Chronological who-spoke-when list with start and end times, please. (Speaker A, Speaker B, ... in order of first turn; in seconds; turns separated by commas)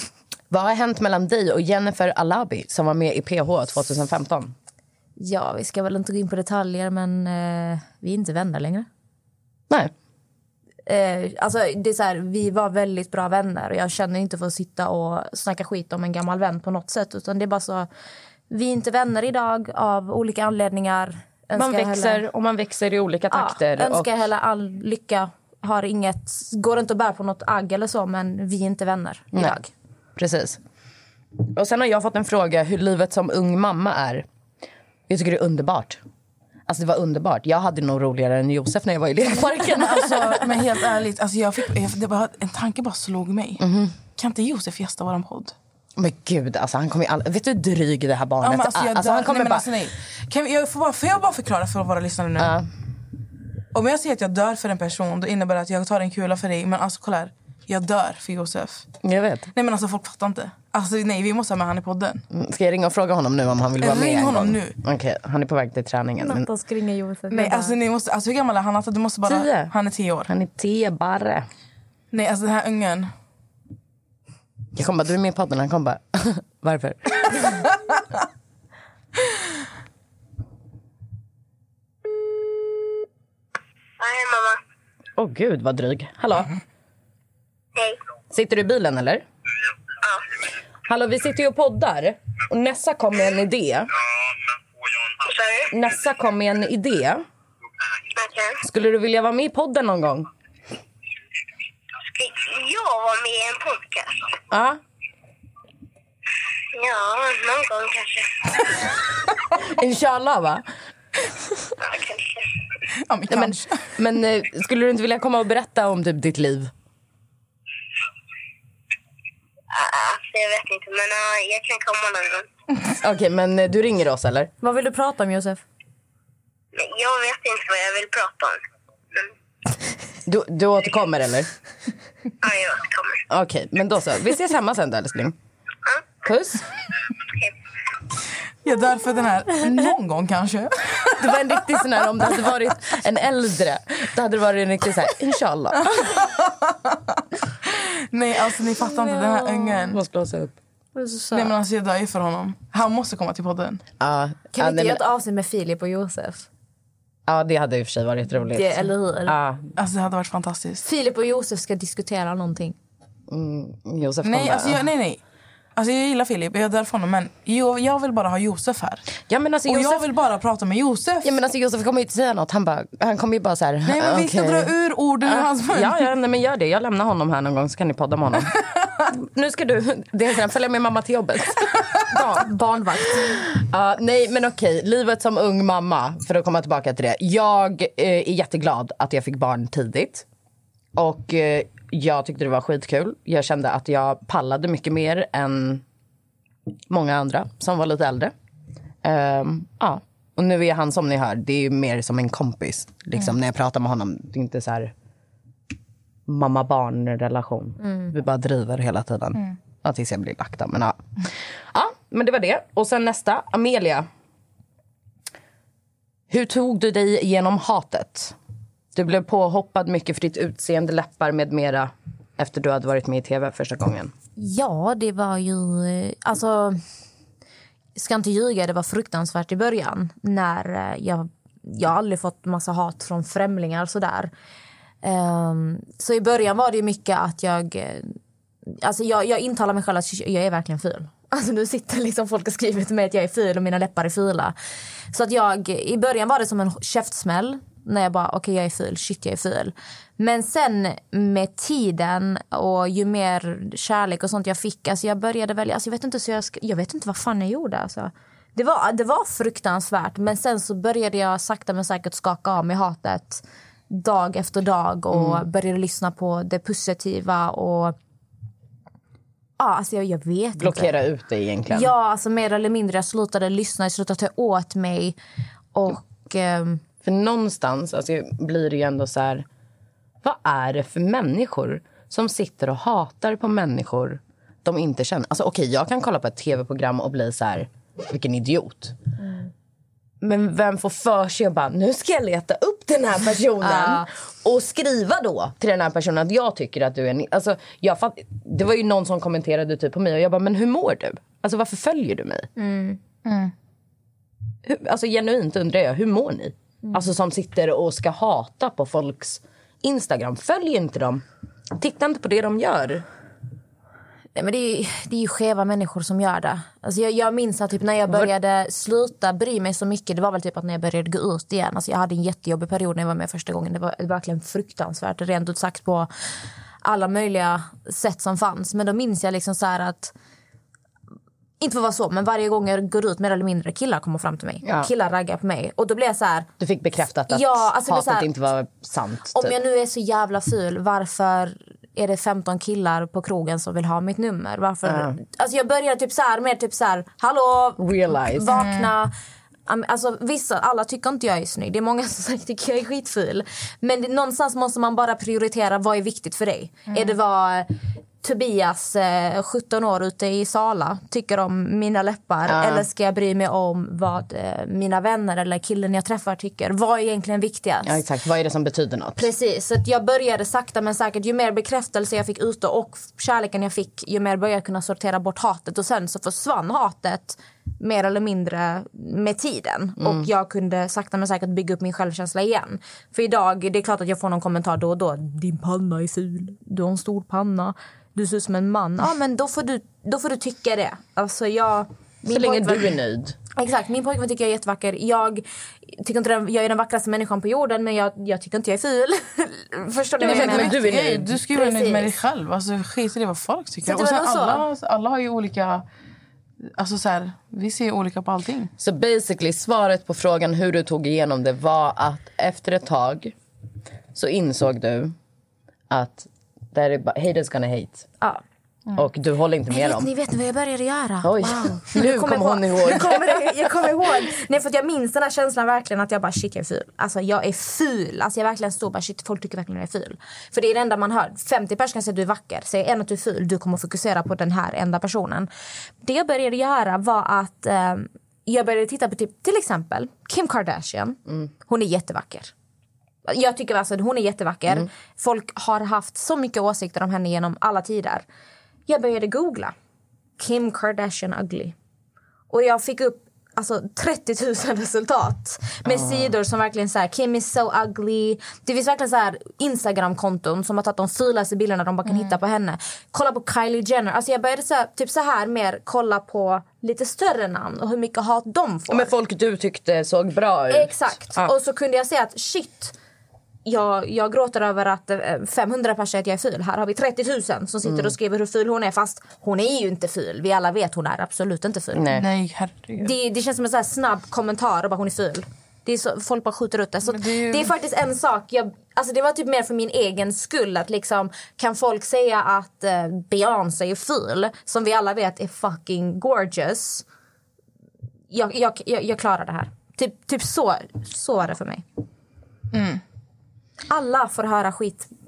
Speaker A: 0.5-4.5, Speaker B: 5.2-8.9, Speaker B: 10.9-17.9, Speaker B: 18.5-22.2, Speaker A: 21.6-24.1, Speaker B: 23.3-29.7, Speaker A: 30.1-30.6, Speaker A: 31.4-34.2, Speaker A: 35.1-36.0, Speaker A: 36.7-40.5, Speaker C: 39.6-45.5, Speaker A: 43.6-44.0, Speaker A: 46.0-49.7, Speaker C: 48.4-52.6, Speaker A: 52.4-52.7, Speaker C: 53.7-58.9, Speaker A: 59.0-59.5, Speaker C: 59.5-62.2, Speaker A: 62.3-66.5, Speaker C: 63.8-64.8, Speaker B: 66.2-67.8, Speaker C: 67.3-70.3, Speaker A: 69.2-69.7, Speaker A: 70.3-71.5, Speaker C: 72.1-73.1, Speaker A: 74.8-77.7, Speaker D: 84.0-84.6, Speaker A: 85.2-86.5, Speaker D: 87.8-88.0, Speaker A: 88.3-89.2, Speaker A: 90.9-93.9, Speaker D: 95.2-95.7, Speaker A: 95.7-97.2, Speaker D: 98.1-98.6, Speaker A: 98.6-100.3, Speaker D: 102.1-104.3, Speaker A: 104.5-104.8, Speaker D: 106.7-109.0, Speaker A: 109.5-110.6, Speaker D: 111.8-112.5, Speaker C: 112.9-113.9, Speaker A: 113.3-116.7, Speaker D: 119.7-122.5, Speaker A: 122.9-124.5, Speaker B: 124.6-125.6, Speaker D: 126.7-128.6, Speaker A: 130.2-131.5, Speaker D: 132.4-133.2, Speaker A: 133.3-135.4, Speaker A: 136.2-136.7, Speaker C: 138.6-141.4, Speaker A: 141.2-146.1, Speaker C: 145.8-150.0, Speaker B: 148.9-149.8, Speaker A: 149.9-150.6, Speaker B: 151.0-151.5, Speaker C: 151.3-153.8, Speaker A: 154.0-155.0, Speaker B: 154.5-156.5, Speaker A: 157.3-159.7, Speaker B: 158.5-159.4, Speaker C: 159.8-160.8, Speaker B: 160.8-162.8, Speaker A: 163.3-164.8, Speaker C: 164.2-165.2, Speaker C: 165.8-169.1, Speaker A: 169.3-170.1, Speaker C: 169.7-171.3, Speaker A: 171.2-174.7, Speaker C: 173.8-176.1, Speaker A: 175.2-182.5, Speaker B: 182.1-183.4, Speaker A: 183.3-190.2, Speaker A: 191.0-195.8, Speaker A: 196.9-198.3, Speaker A: 199.0-204.9, Speaker A: 206.3-211.0, Speaker A: 211.7-214.1, Speaker A: 216.3-218.4, Speaker A: 218.9-224.1, Speaker B: 224.4-226.8, Speaker B: 228.0-234.3, Speaker B: 235.0-244.5, Speaker B: 245.1-267.9, Speaker A: 265.1-265.4, Speaker B: 269.6-271.0, Speaker A: 270.6-271.9, Speaker B: 271.7-275.2, Speaker B: 275.7-276.8, Speaker A: 277.0-279.5, Speaker A: 280.2-289.0, Speaker A: 290.2-302.5, Speaker B: 293.6-294.1, Speaker B: 302.6-303.0, Speaker A: 304.6-311.2, Speaker A: 311.8-313.0, Speaker B: 314.4-326.1, Speaker B: 326.8-330.1, Speaker B: 331.6-336.5, Speaker A: 334.6-334.9, Speaker A: 336.6-339.5, Speaker B: 337.3-338.3, Speaker B: 339.3-349.1, Speaker A: 344.9-345.1, Speaker A: 347.8-348.6, Speaker C: 348.5-348.9, Speaker B: 349.7-368.0, Speaker A: 362.5-362.9, Speaker A: 367.8-369.3, Speaker B: 369.1-392.9, Speaker A: 380.0-380.2, Speaker A: 392.3-393.4, Speaker B: 393.5-400.8, Speaker A: 400.2-401.3, Speaker C: 400.2-405.9, Speaker B: 401.5-402.1, Speaker B: 403.8-404.6, Speaker C: 406.7-408.7, Speaker A: 408.8-413.3, Speaker A: 414.1-415.1, Speaker A: 415.9-418.1, Speaker A: 418.9-420.1, Speaker B: 419.7-435.5, Speaker A: 421.2-423.4, Speaker B: 436.0-442.5, Speaker B: 443.2-448.2, Speaker B: 448.9-449.8, Speaker B: 450.4-451.8, Speaker B: 452.5-469.1, Speaker A: 455.9-456.3, Speaker A: 468.9-471.5, Speaker B: 470.7-472.9, Speaker B: 473.6-482.2, Speaker A: 481.9-482.3, Speaker C: 482.1-483.1, Speaker B: 483.0-497.0, Speaker C: 487.1-487.7, Speaker B: 498.3-501.8, Speaker C: 502.7-503.0, Speaker B: 503.9-505.1